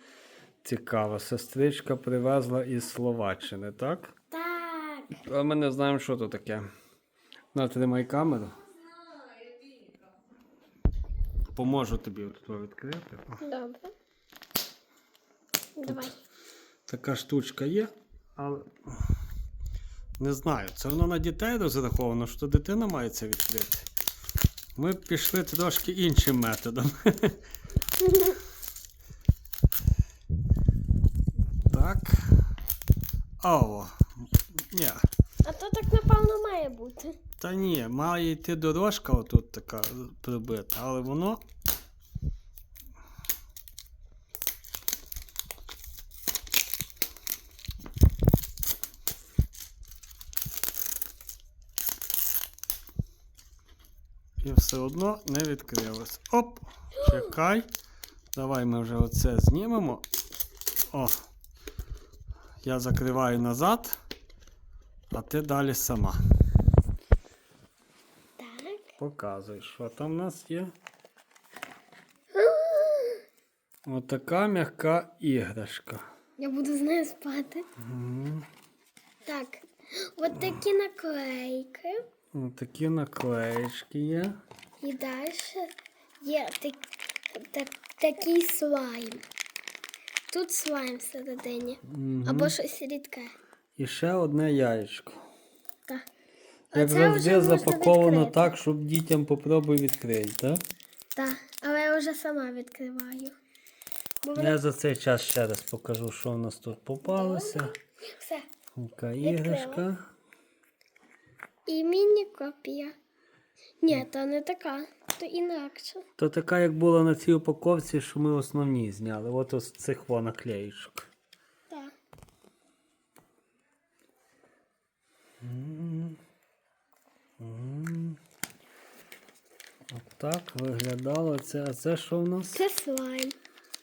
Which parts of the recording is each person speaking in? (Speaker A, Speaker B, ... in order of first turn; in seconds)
Speaker A: 0.6-4.1, 5.2-6.7, 7.5-8.6, 11.5-13.4, 15.8-16.1, 16.9-18.7, 20.2-23.9, 24.8-27.4, 31.6-32.4, 33.4-34.1, 34.7-35.0, 37.4-41.4, 54.4-57.7, 58.3-60.0, 60.9-61.2, 62.6-64.0, 65.1-66.2, 69.0-70.7, 73.8-76.1, 77.8-78.5, 82.3-84.4, 91.8-92.5, 93.8-95.2, 96.7-100.6, 104.3-107.7, 108.7-110.0, 116.2-121.1, 125.4-126.2, 127.4-128.2, 129.9-132.6
Speaker B: 4.3-5.2, 13.4-13.9, 15.8-16.1, 28.0-28.4, 35.4-37.2, 68.4-68.9, 72.3-73.2, 76.4-77.6, 79.2-82.0, 84.8-85.7, 86.2-89.2, 90.3-93.3, 96.7-98.5, 101.1-103.3, 104.2-104.5, 107.0-108.5, 109.2-109.8, 111.7-112.9, 113.8-116.0, 132.5-133.4